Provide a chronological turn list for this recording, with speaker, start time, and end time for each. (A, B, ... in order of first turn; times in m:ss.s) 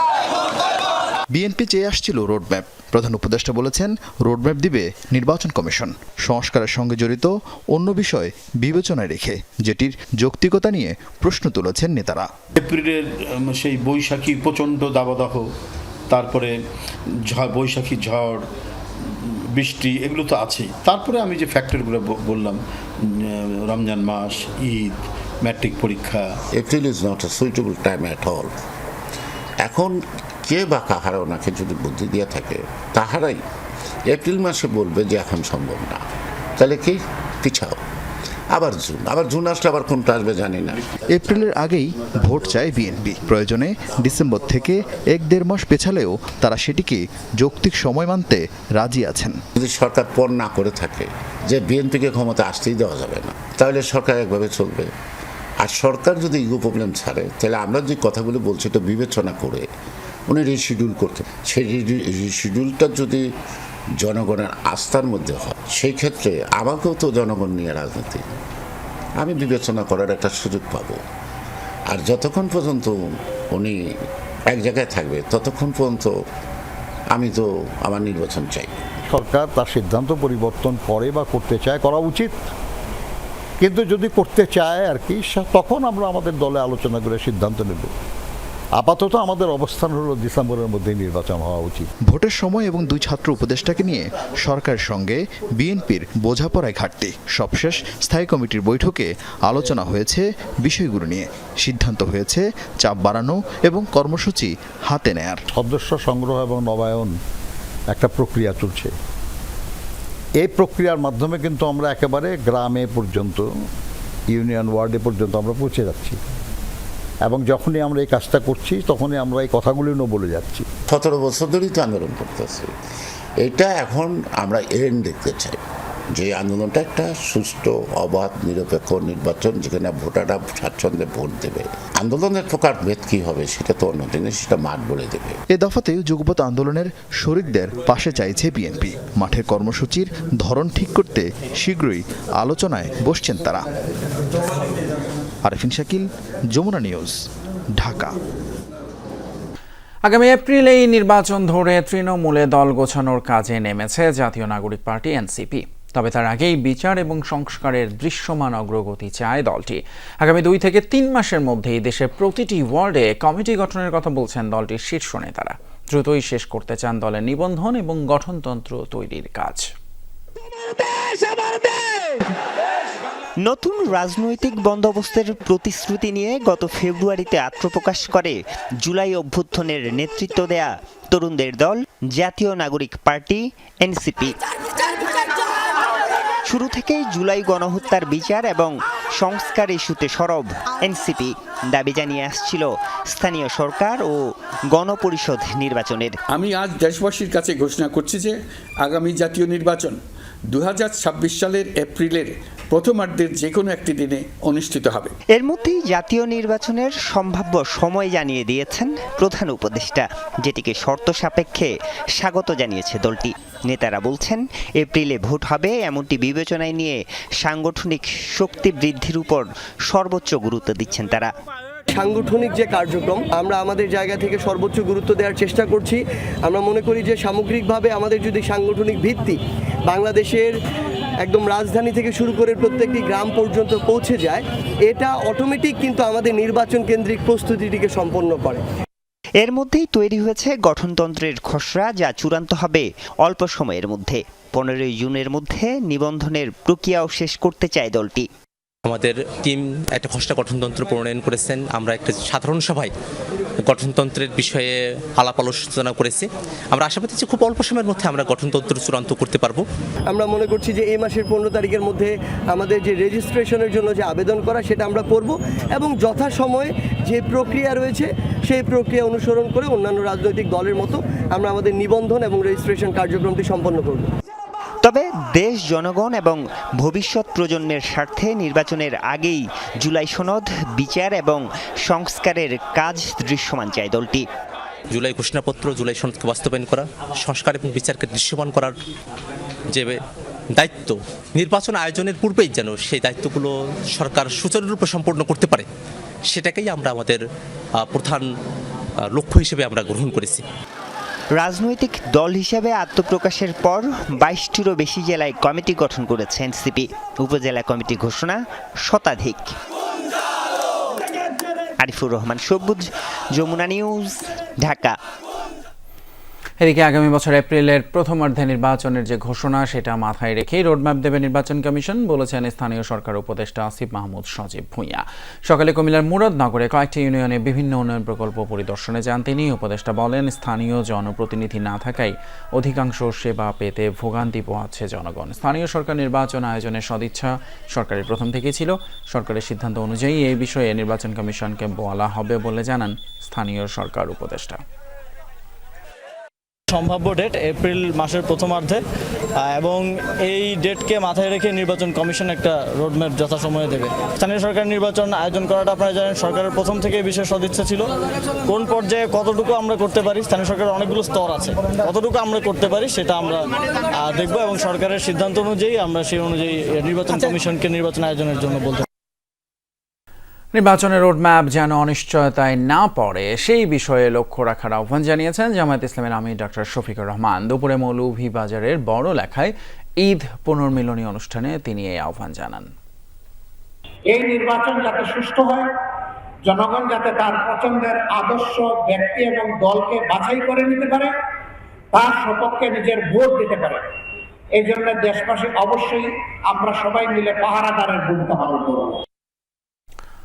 0:01.3-0:12.3 A
0:12.6-0:15.5 B
0:16.1-0:16.6 B
0:17.3-0:18.5 B
0:19.2-0:26.4 B
0:26.6-0:28.5 C
0:29.6-0:33.4 C
0:34.1-0:36.0 C
0:36.6-0:37.8 C
0:38.5-0:40.8 C
0:41.1-0:49.4 A
0:49.6-0:54.9 C
0:55.6-0:59.7 C
1:00.3-1:03.3 C
1:04.0-1:08.2 C
1:09.2-1:11.0 C
1:11.9-1:14.0 C
1:14.5-1:16.2 C
1:17.1-1:18.7 C
1:19.1-1:22.4 D
1:23.6-1:27.9 D
1:28.8-1:31.9 D
1:32.1-1:45.4 A
1:45.5-1:47.1 D
1:47.9-1:48.9 D
1:50.4-1:53.4 D
1:54.3-1:56.2 D
1:57.3-2:00.7 D
2:00.9-2:02.7 C
2:03.4-2:05.6 C
2:06.1-2:15.4 C
2:15.5-2:23.6 A
2:25.4-2:27.2 A
2:27.8-2:28.2 A
2:30.0-2:49.7 E
2:53.4-3:04.4 F
3:06.4-3:16.2 F
3:16.3-3:20.0 G
3:20.5-3:25.1 G
3:25.3-3:41.3 F
3:41.9-3:50.5 H
3:51.2-3:58.6 H
3:59.4-4:08.3 F
4:08.9-4:12.9 I
4:13.6-4:19.6 I
4:20.1-4:34.1 H
4:34.8-4:44.3 F
4:44.9-4:48.8 I
4:50.6-4:55.7 I
4:56.3-4:57.2 I
4:57.8-4:58.2 I
4:59.1-5:00.4 I
5:01.4-5:09.6 F
5:11.8-5:15.0 F
5:16.6-5:44.6 E
5:46.7-5:48.8 J
5:49.4-5:57.8 J
5:58.5-6:03.4 J
6:04.0-6:08.8 J
6:10.6-6:22.7 E
6:24.1-6:25.7 K
6:26.5-6:31.1 K
6:31.9-6:33.8 K
6:34.6-6:39.0 K